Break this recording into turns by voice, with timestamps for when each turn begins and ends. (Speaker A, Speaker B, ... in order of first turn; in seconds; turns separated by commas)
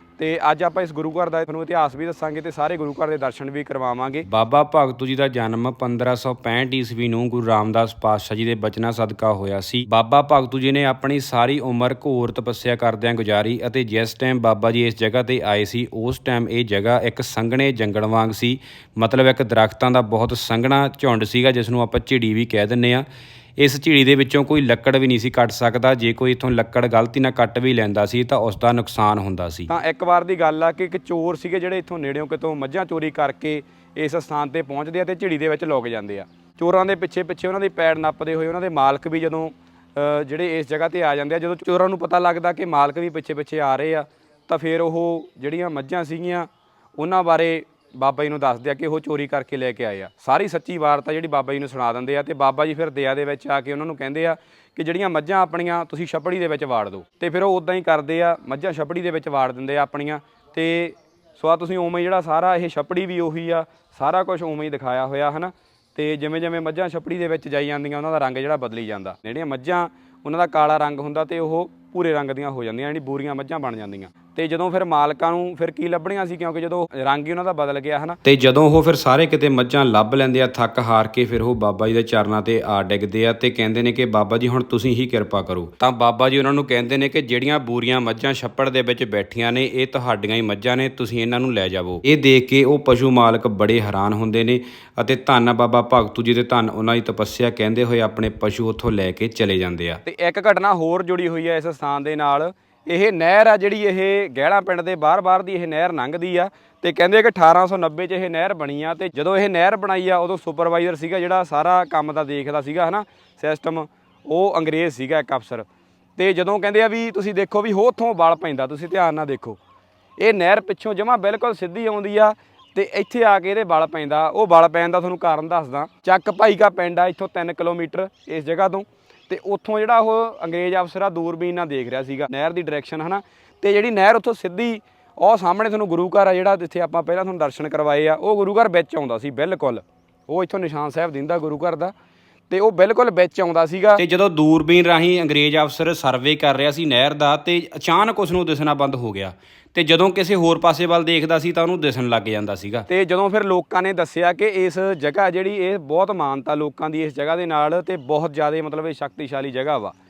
Speaker A: 0.2-4.2, Speaker B: 4.2-23.1, Speaker B: 23.6-29.7, Speaker A: 29.7-78.2, Speaker B: 78.2-100.1, Speaker A: 100.0-119.6, Speaker A: 120.2-141.9, Speaker A: 142.5-144.0, Speaker B: 143.9-152.9, Speaker A: 152.9-159.9